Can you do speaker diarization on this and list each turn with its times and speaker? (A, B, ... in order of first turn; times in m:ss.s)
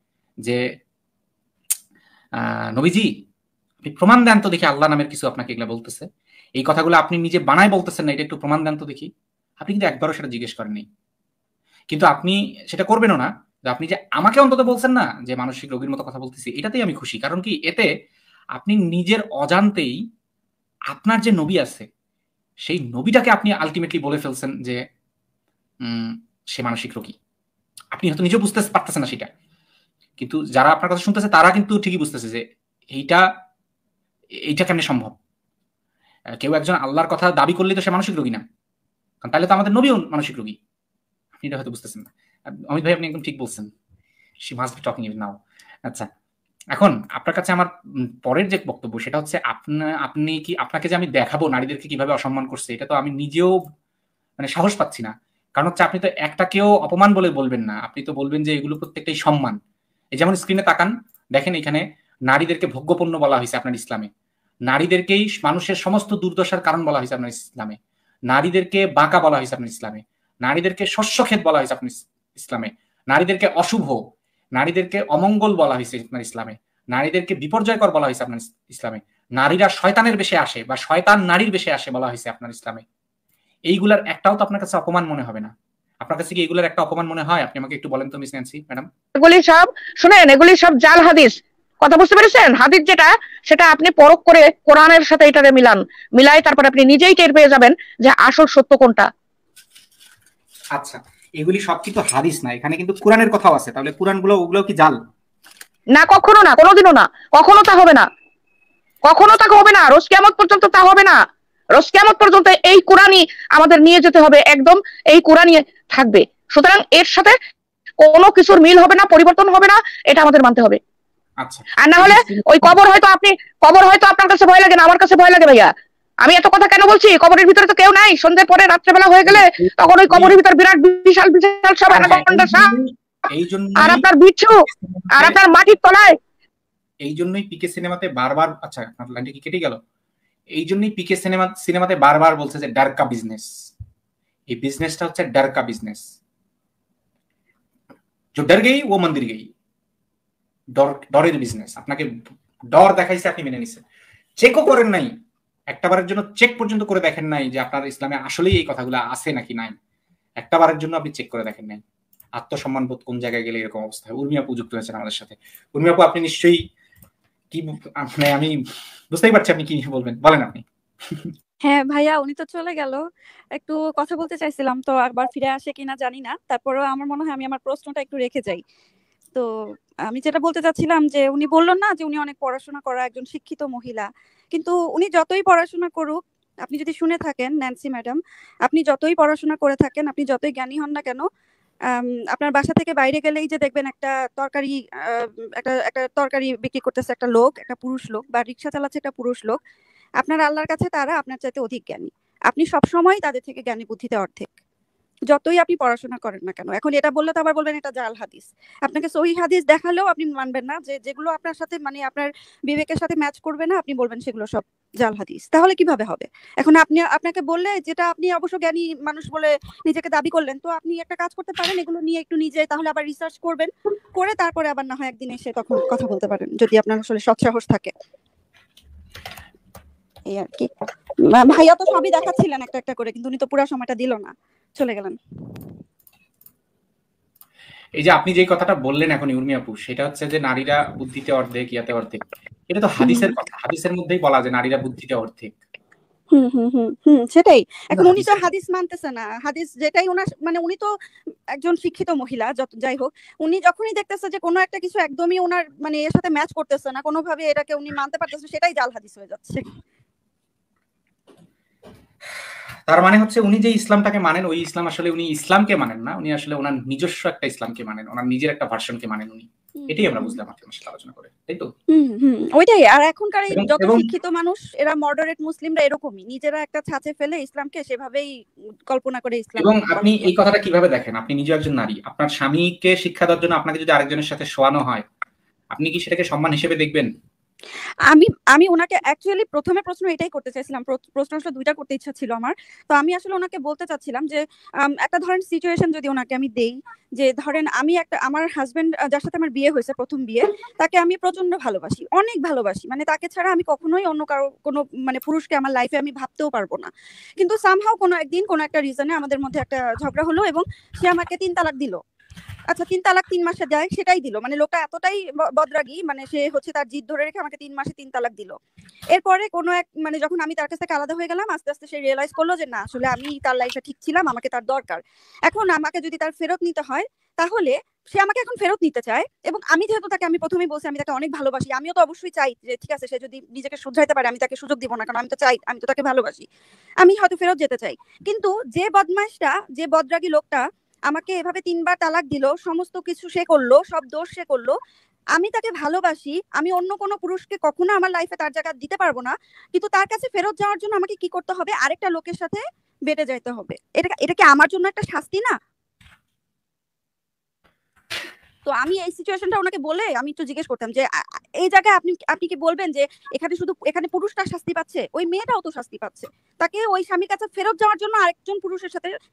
0:02.4-0:03.1 A
0:03.8-0:06.1 A
0:06.6-0:10.9 A
0:11.9-0:17.9 A
0:18.6-0:20.0 A
0:20.9-0:21.9 A
0:22.6-0:24.8 A
0:25.8-0:27.2 A
0:27.9-0:29.3 A
0:30.2-0:32.4 A
0:32.9-0:33.2 A
0:34.5-0:35.2 A
0:36.4-0:38.4 A
0:39.2-0:40.6 A
0:41.4-0:42.1 A
0:42.7-0:43.7 A
0:44.5-0:46.1 A
0:46.7-0:47.7 A
0:48.2-0:53.5 A
0:54.4-0:59.6 A
1:00.2-1:04.1 A
1:04.7-1:07.8 A
1:08.3-1:14.0 A
1:14.6-1:22.8 A
1:23.7-1:28.9 A
1:29.2-1:39.1 B
1:40.8-1:45.0 A
1:45.9-1:48.1 B
1:49.1-1:51.2 B
1:51.8-1:57.4 B
1:58.0-2:00.8 B
2:01.4-2:02.8 A
2:01.8-2:05.7 B
2:06.2-2:12.7 B
2:09.3-2:10.4 A
2:11.9-2:15.4 A
2:13.8-2:16.2 B
2:17.0-2:19.8 A
2:20.6-2:23.5 A
2:24.5-2:26.0 A
2:28.4-2:29.5 A
2:30.8-2:32.1 A
2:32.7-2:33.8 A
2:34.4-2:35.1 A
2:35.7-2:39.8 A
2:40.4-2:41.8 A
2:42.4-2:46.6 A
2:47.5-2:48.6 A
2:49.1-2:51.3 A
2:51.6-2:53.0 C
2:53.6-2:58.6 C
3:00.1-3:11.2 C
3:11.9-3:19.6 C
3:20.2-3:24.5 C
3:25.3-3:47.9 C
3:50.3-3:50.7 C
3:51.2-3:55.2 C
3:58.0-4:05.5 A
4:03.0-4:03.4 C
4:06.3-4:10.9 C
4:07.9-4:08.5 A
4:11.6-4:19.7 C
4:22.9-4:31.7 A
4:29.8-4:30.4 C
4:31.9-4:38.3 C
4:33.5-4:34.1 A
4:38.9-4:40.3 C
4:39.6-4:45.1 A
4:45.7-4:47.1 A
4:48.1-5:12.0 C
5:12.7-5:18.6 C
5:19.1-5:36.5 C
5:37.0-5:44.8 C
5:45.4-5:55.6 C
5:58.7-6:01.1 C
6:01.6-6:09.1 C